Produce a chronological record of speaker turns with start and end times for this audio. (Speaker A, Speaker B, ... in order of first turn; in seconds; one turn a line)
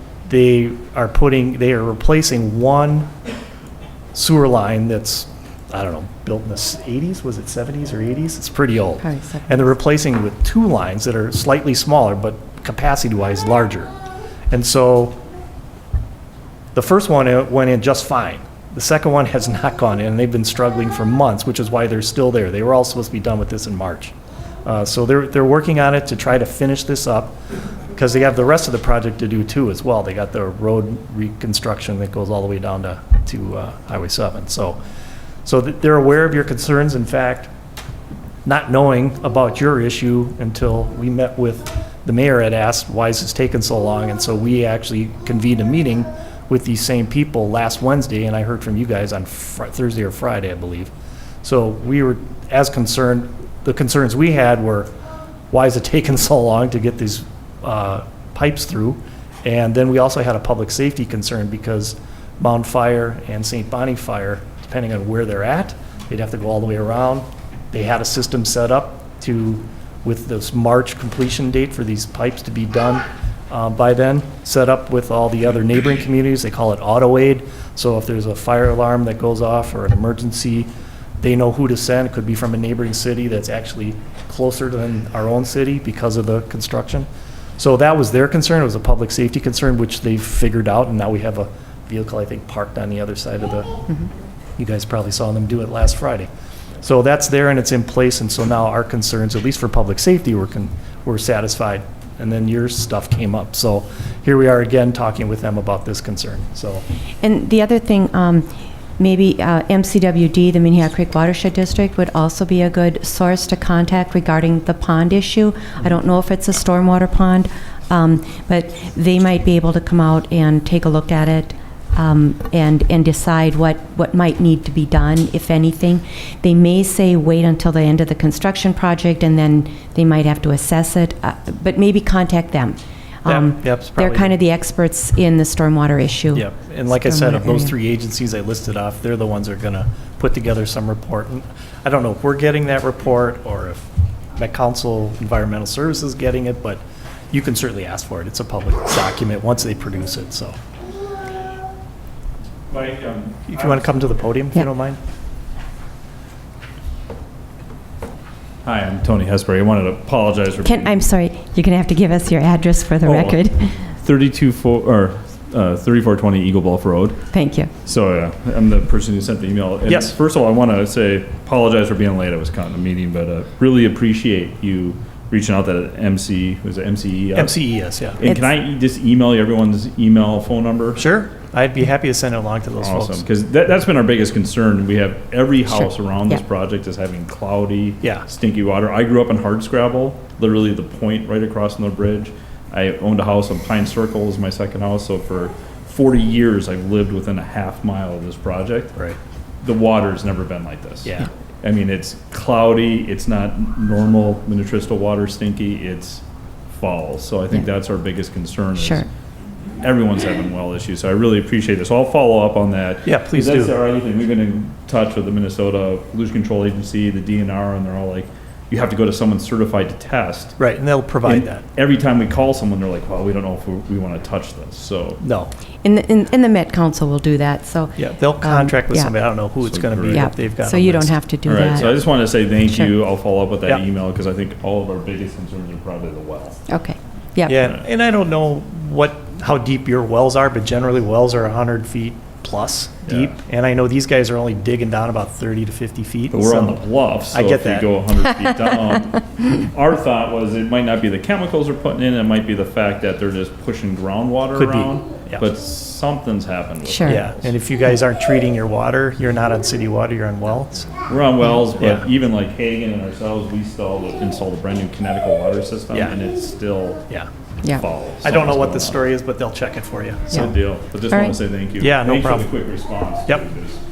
Speaker A: 0.3-3.1
Speaker A: 4.1-13.9
Speaker B: 9.0-9.7
Speaker A: 14.5-15.2
Speaker A: 16.7-27.4
Speaker A: 27.9-34.8
Speaker A: 35.5-37.5
Speaker A: 38.5-50.9
Speaker A: 51.4-54.9
Speaker A: 55.5-80.7
Speaker A: 81.2-93.8
Speaker A: 94.6-96.3
Speaker A: 96.8-106.8
Speaker B: 107.2-108.5
Speaker B: 109.0-137.7
Speaker A: 133.3-134.3
Speaker A: 136.3-150.6
Speaker C: 152.7-153.9
Speaker A: 153.5-155.0
Speaker C: 158.6-161.1
Speaker B: 160.6-163.8
Speaker C: 163.0-167.3
Speaker B: 167.3-167.7
Speaker C: 167.8-177.6
Speaker A: 169.9-170.2
Speaker A: 177.4-178.3
Speaker C: 178.2-181.1
Speaker A: 181.0-183.3
Speaker C: 182.8-199.0
Speaker C: 199.6-209.1
Speaker B: 208.8-209.1
Speaker C: 209.8-220.6
Speaker A: 213.1-213.8
Speaker A: 220.6-221.6
Speaker C: 221.2-225.2
Speaker A: 225.2-225.5
Speaker B: 225.8-229.2
Speaker A: 228.0-231.2
Speaker C: 229.6-230.3
Speaker B: 230.1-232.9
Speaker C: 231.5-236.6
Speaker B: 236.7-237.6
Speaker A: 237.5-247.9
Speaker C: 243.1-243.3
Speaker C: 246.3-257.5
Speaker A: 254.6-255.4
Speaker B: 256.9-257.2
Speaker A: 257.1-260.9
Speaker C: 261.1-267.1
Speaker A: 261.8-262.1
Speaker A: 265.9-266.2
Speaker C: 267.7-269.0
Speaker A: 268.2-270.5
Speaker C: 270.3-273.8
Speaker B: 271.1-271.4
Speaker A: 271.8-272.6